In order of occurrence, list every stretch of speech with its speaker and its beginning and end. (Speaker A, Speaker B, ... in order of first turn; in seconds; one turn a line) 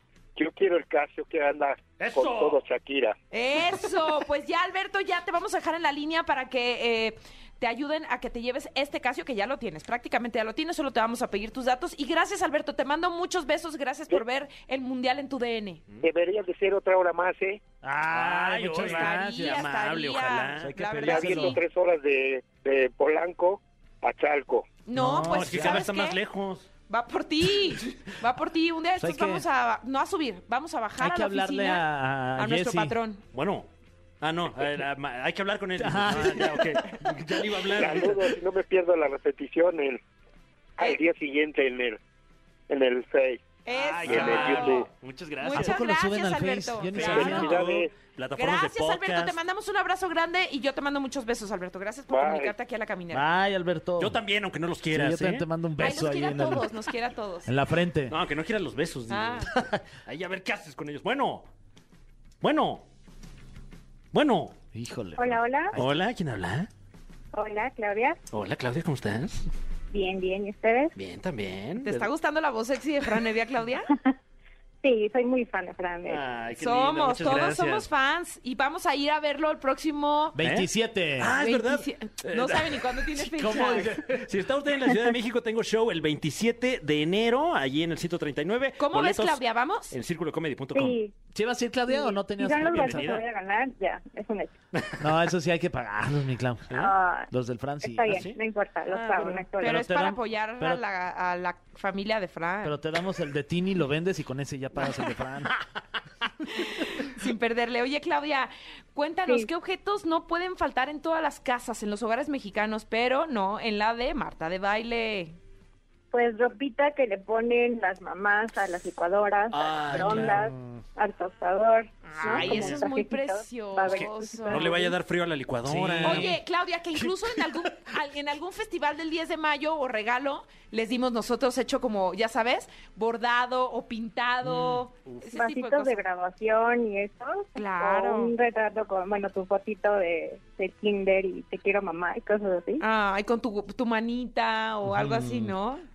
Speaker A: 0.3-3.1
Speaker B: 2.0-2.6
Speaker C: 3.3-15.8
Speaker A: 16.0-17.6
Speaker D: 17.8-19.7
Speaker B: 18.1-20.7
Speaker C: 18.8-21.6
Speaker D: 20.6-21.6
Speaker A: 21.0-24.7
Speaker C: 24.9-26.2
Speaker D: 24.9-25.9
Speaker B: 25.2-26.7
Speaker C: 26.9-33.2
Speaker D: 29.0-29.4
Speaker D: 31.0-33.0
Speaker B: 33.3-33.7
Speaker B: 34.2-38.3
Speaker D: 35.8-37.0
Speaker A: 37.7-40.0
Speaker A: 40.8-42.0
Speaker A: 42.7-43.4
Speaker C: 43.6-44.8
Speaker B: 43.7-45.8
Speaker A: 44.0-44.9
Speaker C: 45.4-47.5
Speaker D: 45.5-47.6
Speaker B: 46.9-49.4
Speaker A: 47.1-47.9
Speaker C: 48.4-53.3
Speaker A: 52.1-52.5
Speaker D: 53.1-54.2
Speaker B: 54.0-55.5
Speaker D: 54.9-56.7
Speaker C: 55.8-57.5
Speaker D: 57.5-58.2
Speaker B: 58.1-61.5
Speaker C: 59.1-59.5
Speaker D: 59.5-59.8
Speaker B: 62.4-62.8
Speaker B: 64.1-64.5
Speaker D: 64.7-66.0
Speaker E: 65.2-65.8
Speaker B: 65.8-66.7
Speaker E: 67.3-68.2
Speaker B: 68.3-69.4
Speaker E: 69.9-70.9
Speaker B: 71.0-72.1
Speaker C: 71.8-73.9
Speaker E: 74.8-76.2
Speaker B: 76.0-77.9
Speaker C: 76.5-80.4
Speaker D: 80.3-81.3
Speaker B: 80.4-83.0
Speaker C: 81.3-83.9
Speaker D: 83.4-84.3
Speaker B: 83.5-91.0
Speaker C: 88.8-89.9
Speaker E: 90.7-91.1
Speaker D: 91.3-93.2
Speaker E: 91.9-94.5
Speaker B: 92.6-93.3
Speaker B: 94.7-95.0
Speaker D: 95.0-98.2
Speaker E: 96.8-97.3
Speaker E: 97.8-99.8
Speaker B: 98.1-99.5
Speaker C: 99.6-102.8
Speaker D: 99.6-100.8
Speaker D: 102.6-105.5
Speaker C: 106.5-115.3
Speaker E: 116.1-124.9
Speaker B: 119.5-120.4
Speaker D: 120.0-120.5
Speaker B: 122.1-122.8
Speaker C: 122.2-124.9
Speaker B: 123.9-126.4
Speaker D: 125.6-126.4
Speaker C: 126.0-136.0
Speaker B: 134.4-135.2
Speaker E: 135.3-142.8
Speaker C: 137.5-138.3
Speaker C: 142.8-145.8
Speaker D: 144.8-145.5